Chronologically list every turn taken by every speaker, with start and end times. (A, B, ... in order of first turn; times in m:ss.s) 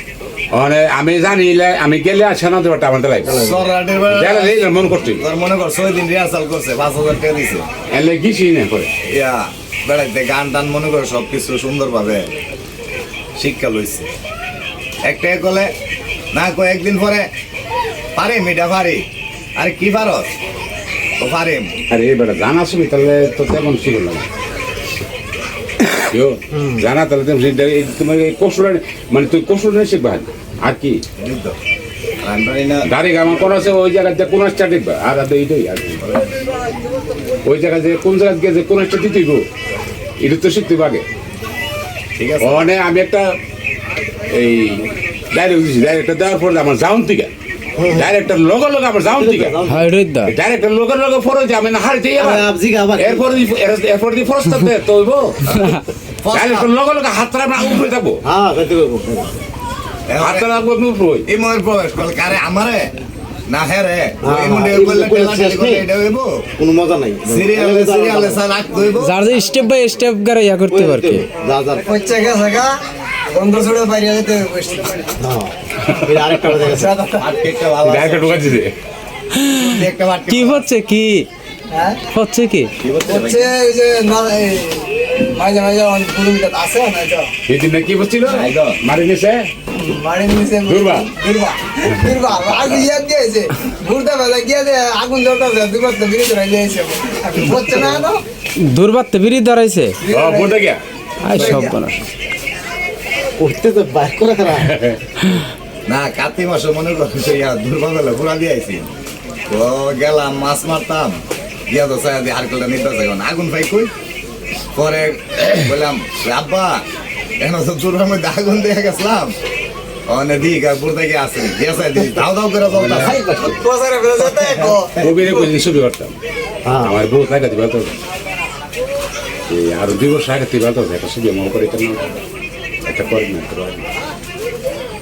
0:00.5-0:03.4 A
0:03.2-0:07.7 B
0:03.3-0:03.6 C
0:04.0-0:05.2 A
0:07.9-0:08.9 A
0:09.1-0:12.3 B
0:13.4-0:14.1 B
0:15.0-0:15.7 B
0:16.3-0:17.3 B
0:18.2-0:19.0 B
0:19.6-0:20.3 B
0:21.2-0:21.7 B
0:21.9-0:24.2 A
0:26.1-0:31.0 A
0:26.5-0:26.8 C
0:31.2-0:31.5 B
0:32.2-0:32.9 B
0:32.8-0:36.0 A
0:37.4-0:39.4 A
0:40.2-0:41.0 A
0:42.2-0:42.6 B
0:42.4-0:43.4 A
0:44.3-0:47.3 A
0:47.8-0:48.1 C
0:47.9-0:49.6 A
0:49.0-0:49.9 C
0:49.6-0:50.3 D
0:50.2-0:55.4 A
0:52.2-0:53.4 C
0:55.4-0:56.7 B
0:56.3-0:58.2 A
0:58.2-0:59.4 C
1:00.1-1:00.5 B
1:00.2-1:01.3 A
1:01.3-1:02.9 B
1:03.5-1:06.4 B
1:04.2-1:05.8 C
1:06.6-1:08.4 C
1:07.3-1:09.4 B
1:09.0-1:11.3 D
1:10.7-1:11.8 C
1:11.8-1:12.7 E
1:13.3-1:15.2 E
1:15.2-1:17.0 C
1:15.8-1:16.1 A
1:16.5-1:17.2 E
1:17.2-1:18.6 B
1:17.8-1:18.7 A
1:19.5-1:20.6 B
1:20.3-1:21.3 D
1:21.7-1:22.0 E
1:22.1-1:22.7 D
1:22.8-1:23.5 B
1:23.1-1:27.3 E
1:27.5-1:29.5 A
1:28.2-1:28.8 B
1:29.8-1:38.2 E
1:30.6-1:31.1 A
1:31.9-1:32.8 A
1:38.6-1:40.0 D
1:40.0-1:40.6 E
1:40.1-1:40.8 A
1:41.2-1:42.0 D
1:41.2-1:41.8 E
1:41.3-1:41.6 A
1:43.4-1:44.7 C
1:44.6-1:45.0 A
1:45.9-1:48.9 B
1:49.5-1:51.2 B
1:51.7-1:53.9 B
1:54.7-1:56.8 B
1:57.4-1:59.3 B
2:00.1-2:03.2 B
2:02.8-2:03.5 C
2:02.8-2:03.2 A
2:03.5-2:05.0 E
2:04.2-2:05.2 B
2:05.0-2:06.1 A
2:06.6-2:06.9 C
2:06.8-2:08.0 A
2:09.5-2:12.1 A
2:12.8-2:13.8 A